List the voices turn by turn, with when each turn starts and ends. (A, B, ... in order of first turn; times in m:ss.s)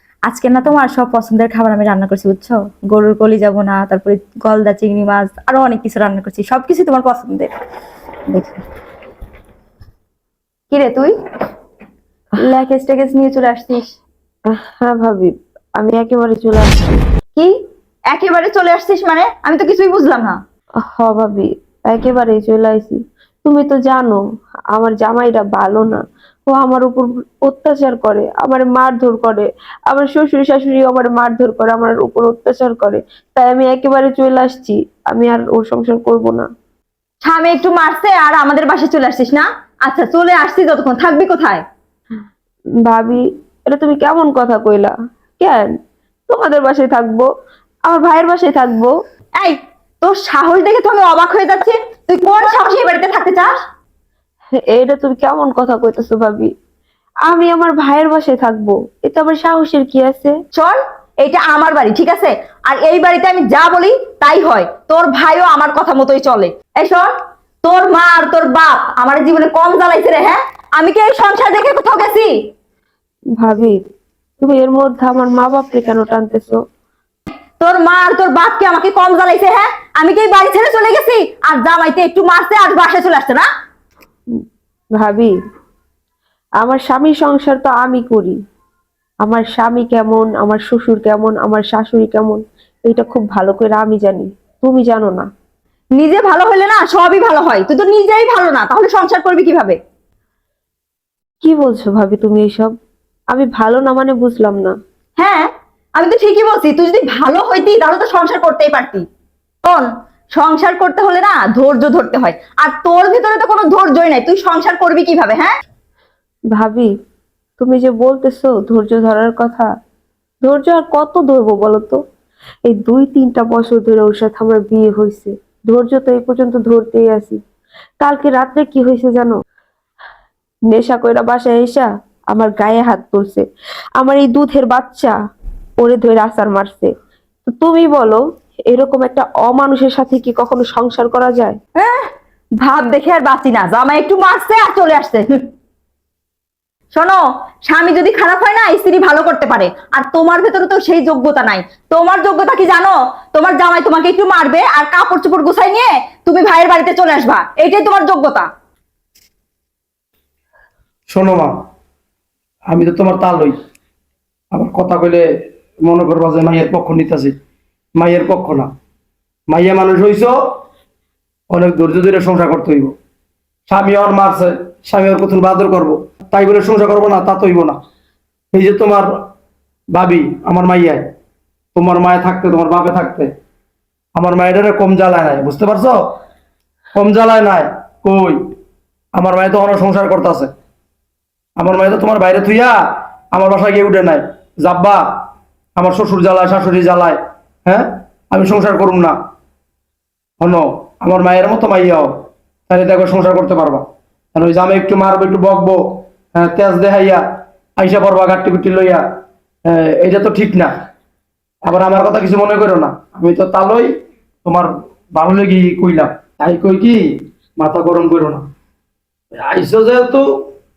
0:00.2-0:07.5 A
0:08.3-0:08.6 A
0:10.7-0:11.1 A
0:12.4-0:13.9 A
0:14.5-0:17.0 B
0:18.1-0:20.4 A
0:20.8-0:24.2 B
0:24.7-0:36.4 B
0:37.2-0:41.6 A
0:42.8-0:45.7 B
0:46.3-0:47.3 B
0:47.9-0:48.9 B
0:49.4-0:53.5 A
0:54.7-0:56.5 B
0:57.3-1:00.3 B
1:00.5-1:07.1 A
1:07.6-1:12.3 A
1:13.4-1:13.8 B
1:14.4-1:16.6 B
1:17.6-1:23.4 A
1:25.0-1:25.3 B
1:26.6-1:28.4 B
1:29.2-1:35.2 B
1:36.0-1:39.8 A
1:41.4-1:42.7 B
1:43.3-1:44.7 B
1:45.2-1:49.0 A
1:49.6-1:55.5 A
1:56.5-1:56.9 B
1:57.6-1:59.7 B
2:00.4-2:02.0 B
2:02.6-2:07.4 B
2:08.0-2:09.4 B
2:10.7-2:13.4 B
2:14.0-2:15.1 B
2:15.8-2:16.9 B
2:17.5-2:21.6 B
2:21.8-2:22.1 A
2:22.6-2:25.4 A
2:26.9-2:38.5 A
2:41.1-2:41.6 C
2:42.7-2:43.6 C
2:44.5-2:45.2 C
2:45.8-2:47.3 C
2:48.0-2:48.7 C
2:49.5-2:50.3 C
2:51.5-2:52.9 C
2:53.7-2:57.8 C
2:58.5-2:59.0 C
2:59.9-3:01.0 C
3:01.7-3:03.3 C
3:04.1-3:06.0 C
3:06.9-3:08.4 C
3:09.1-3:10.5 C
3:11.6-3:12.8 C
3:13.3-3:15.0 C
3:15.8-3:19.2 C
3:20.4-3:22.1 C
3:22.7-3:25.8 C
3:26.3-3:27.2 C
3:27.8-3:29.0 C
3:29.6-3:30.7 C
3:31.6-3:33.9 C
3:34.4-3:37.0 C
3:37.6-3:38.4 C
3:39.4-3:40.5 C